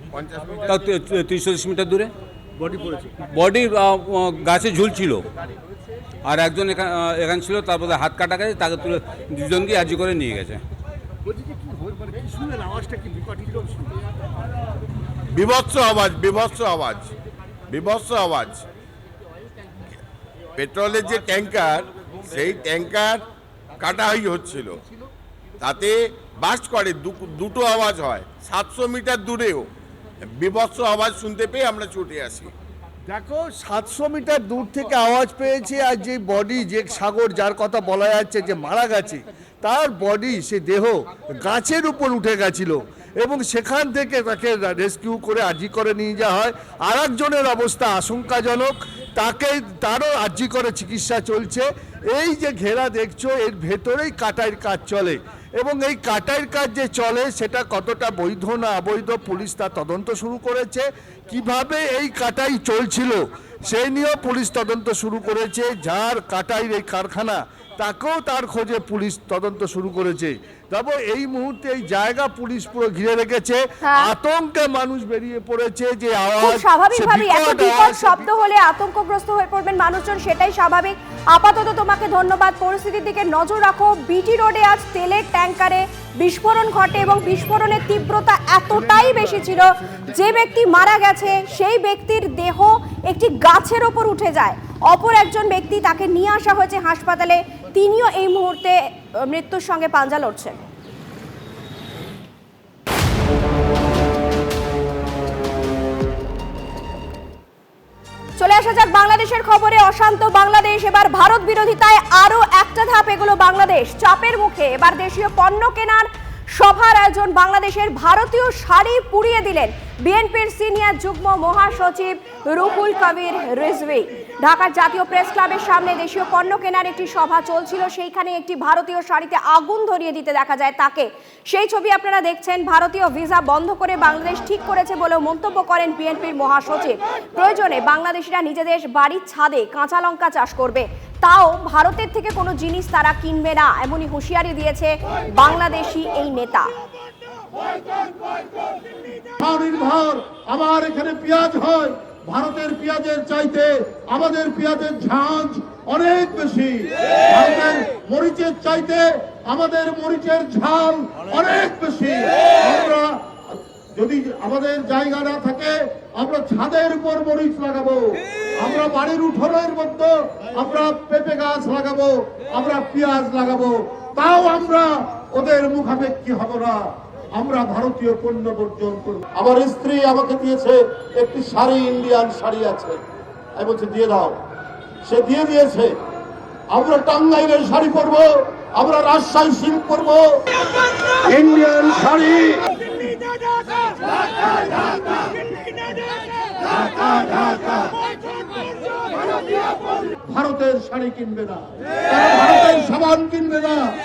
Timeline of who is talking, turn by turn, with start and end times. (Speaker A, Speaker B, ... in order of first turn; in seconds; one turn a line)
Speaker A: 0.1-0.7
Speaker B: 0.7-2.1
Speaker C: 2.6-3.1
Speaker B: 3.2-5.3
Speaker B: 6.2-10.6
Speaker C: 11.3-13.9
Speaker A: 15.3-17.1
Speaker A: 17.7-18.6
Speaker A: 20.6-23.2
Speaker A: 23.8-24.8
Speaker A: 25.6-29.7
Speaker A: 30.2-32.5
Speaker C: 33.1-78.3
Speaker D: 73.8-74.1
Speaker D: 76.4-100.6
Speaker D: 108.4-146.7
Speaker E: 149.4-176.8
Speaker E: 177.4-183.0
Speaker E: 183.6-184.4
Speaker E: 185.1-185.9
Speaker E: 186.7-190.2
Speaker E: 191.3-192.6
Speaker E: 196.8-197.9
Speaker E: 200.3-203.9